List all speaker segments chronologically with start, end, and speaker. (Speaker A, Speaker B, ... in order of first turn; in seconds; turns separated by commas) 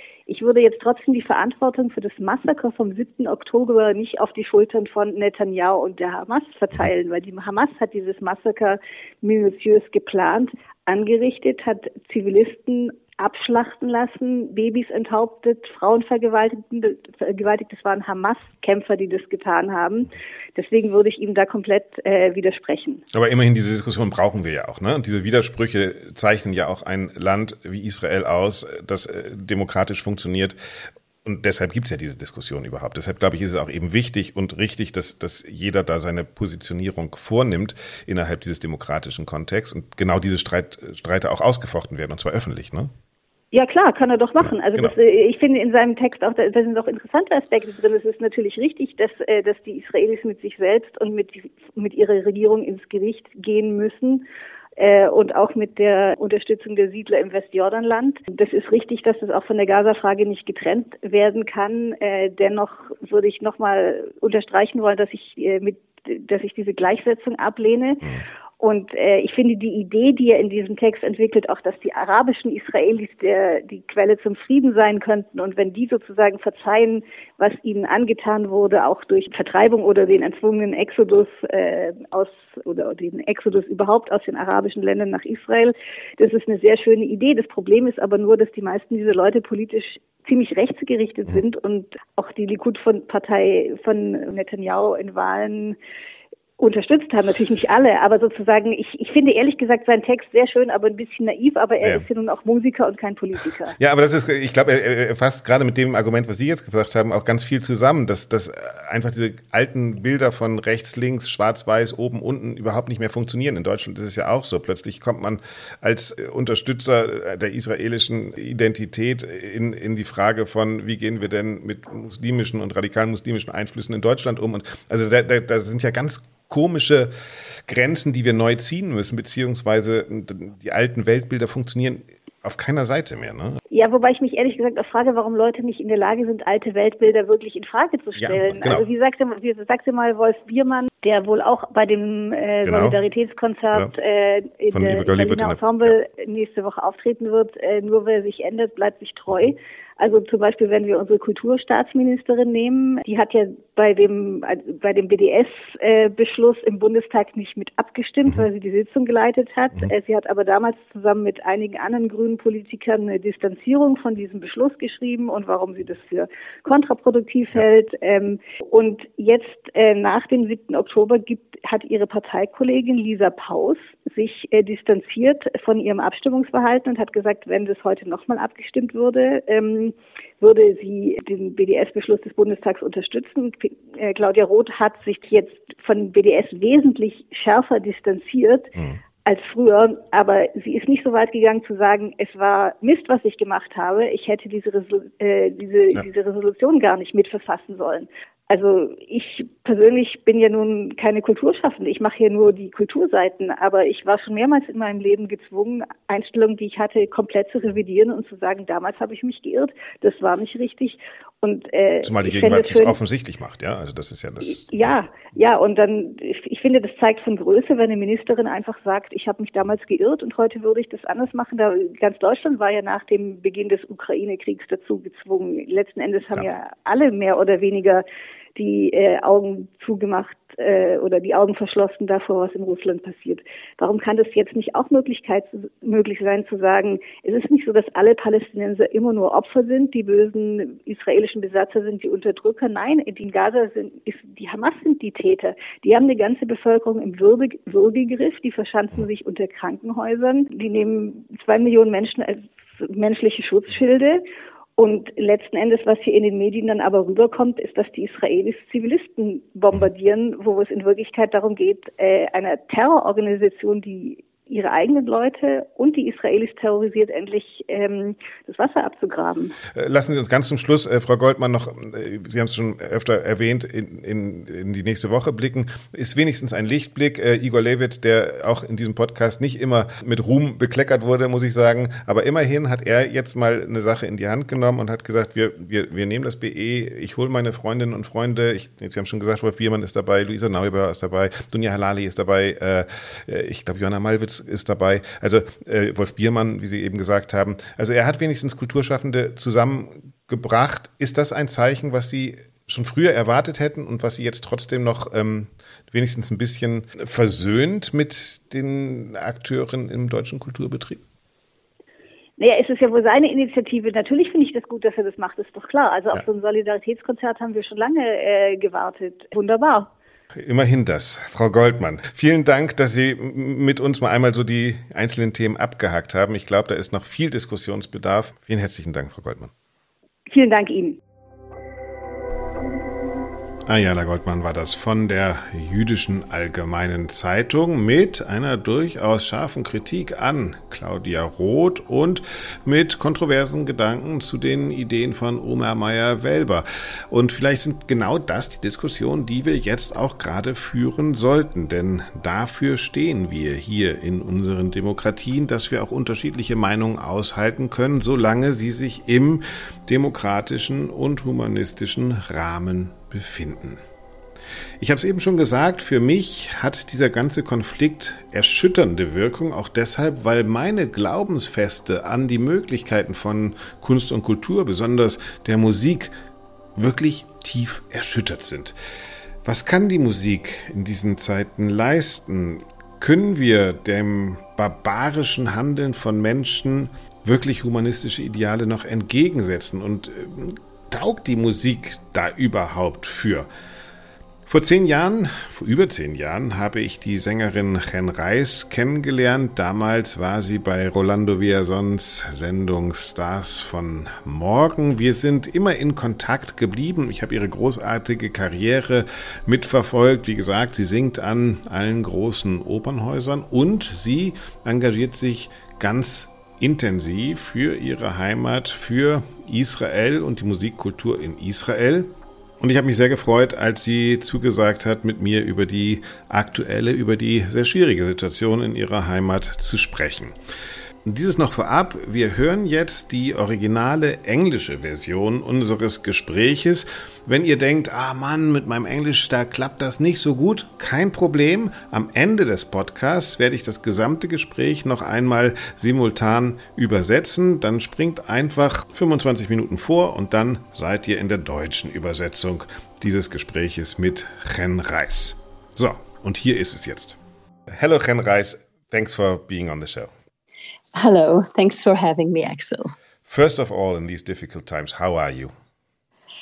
Speaker A: 0.3-23.0, Speaker B: 23.1-30.6, Speaker B: 31.2-42.9, Speaker A: 43.5-54.2, Speaker B: 44.4-44.9, Speaker A: 54.8-68.1, Speaker A: 68.6-95.8, Speaker A: 96.6-103.8, Speaker B: 103.8-127.1, Speaker B: 127.7-133.6, Speaker A: 133.7-188.7, Speaker B: 138.2-138.8, Speaker B: 142.6-143.0, Speaker B: 144.7-145.6, Speaker A: 189.2-213.0, Speaker B: 212.0-214.9, Speaker A: 214.4-228.0, Speaker A: 228.6-254.2, Speaker A: 254.8-269.6, Speaker B: 269.7-311.0, Speaker A: 312.4-319.9, Speaker B: 320.4-329.5, Speaker A: 330.3-331.0, Speaker B: 333.6-363.8, Speaker B: 364.8-376.1, Speaker B: 376.7-378.8, Speaker B: 379.4-393.5, Speaker B: 394.5-430.4, Speaker B: 431.0-457.2, Speaker B: 457.7-460.1, Speaker C: 460.9-462.9, Speaker B: 463.3-465.5